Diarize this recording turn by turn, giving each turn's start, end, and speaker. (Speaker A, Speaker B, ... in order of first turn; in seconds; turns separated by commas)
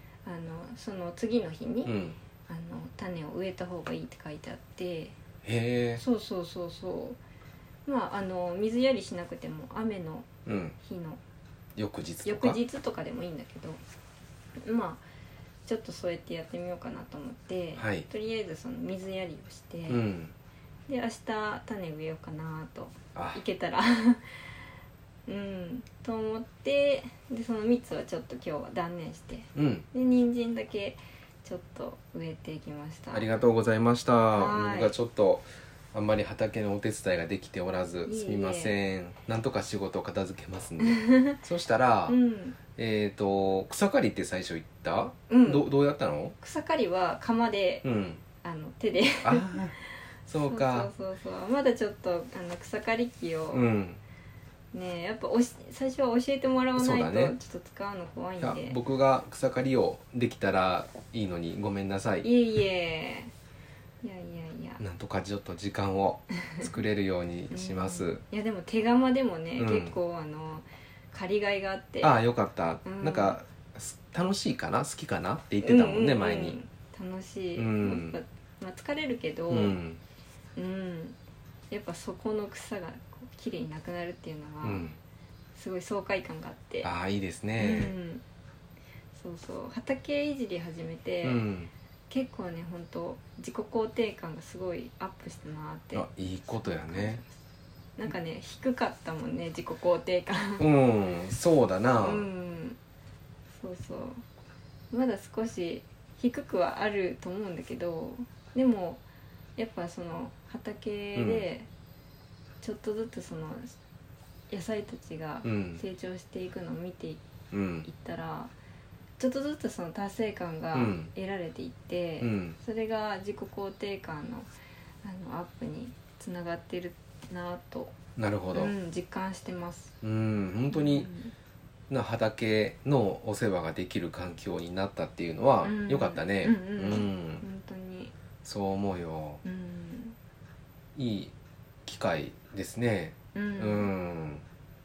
Speaker A: 0.2-2.0, Speaker B: 1.9-2.2, Speaker A: 2.5-5.2, Speaker B: 5.4-6.0, Speaker A: 6.0-7.2, Speaker A: 7.9-10.3, Speaker B: 10.5-10.8, Speaker A: 10.8-11.2, Speaker B: 11.8-12.6, Speaker A: 12.2-13.8, Speaker A: 14.6-15.0, Speaker A: 15.7-20.1, Speaker B: 17.8-18.1, Speaker B: 19.9-20.3, Speaker A: 20.9-24.2, Speaker B: 23.1-23.4, Speaker A: 25.3-33.3, Speaker B: 29.6-29.9, Speaker B: 33.1-42.2, Speaker A: 34.3-35.0, Speaker A: 38.1-38.8, Speaker A: 40.8-41.4, Speaker A: 42.1-42.6, Speaker B: 42.8-46.4, Speaker A: 45.3-45.7, Speaker A: 46.4-47.8, Speaker B: 47.8-48.2, Speaker A: 48.4-53.6, Speaker B: 49.2-49.8, Speaker B: 50.3-50.9, Speaker B: 53.5-54.0, Speaker A: 54.7-58.8, Speaker B: 56.8-57.4, Speaker B: 58.4-62.3, Speaker A: 62.2-63.3, Speaker A: 64.0-64.8, Speaker B: 64.8-68.2, Speaker A: 67.5-72.2, Speaker B: 69.6-70.0, Speaker B: 72.0-76.6, Speaker A: 72.8-73.4, Speaker A: 75.6-79.8, Speaker B: 77.6-78.2, Speaker B: 79.5-80.0, Speaker A: 80.6-81.2, Speaker A: 81.7-84.9, Speaker B: 84.6-85.0, Speaker A: 85.5-86.9, Speaker B: 86.8-87.9, Speaker A: 87.6-88.2, Speaker A: 89.2-91.4, Speaker B: 91.2-91.7, Speaker A: 92.1-97.3, Speaker B: 95.9-97.2, Speaker A: 98.0-100.7, Speaker B: 100.6-102.3, Speaker A: 102.0-102.8, Speaker A: 103.6-104.2, Speaker A: 104.9-109.0, Speaker A: 109.6-111.7, Speaker B: 111.2-111.5, Speaker A: 112.6-113.8, Speaker A: 114.5-117.2, Speaker B: 115.4-115.8, Speaker B: 117.5-117.9, Speaker A: 117.8-118.5, Speaker A: 119.2-124.5, Speaker B: 120.7-121.1, Speaker B: 122.2-122.6, Speaker A: 125.0-128.0, Speaker B: 128.2-128.7, Speaker A: 128.5-129.9, Speaker B: 130.0-131.1, Speaker A: 130.7-131.3, Speaker B: 131.9-137.4, Speaker A: 135.6-138.1, Speaker B: 138.4-139.4, Speaker A: 139.4-140.2, Speaker B: 141.0-141.3, Speaker B: 141.8-144.4, Speaker A: 143.3-143.9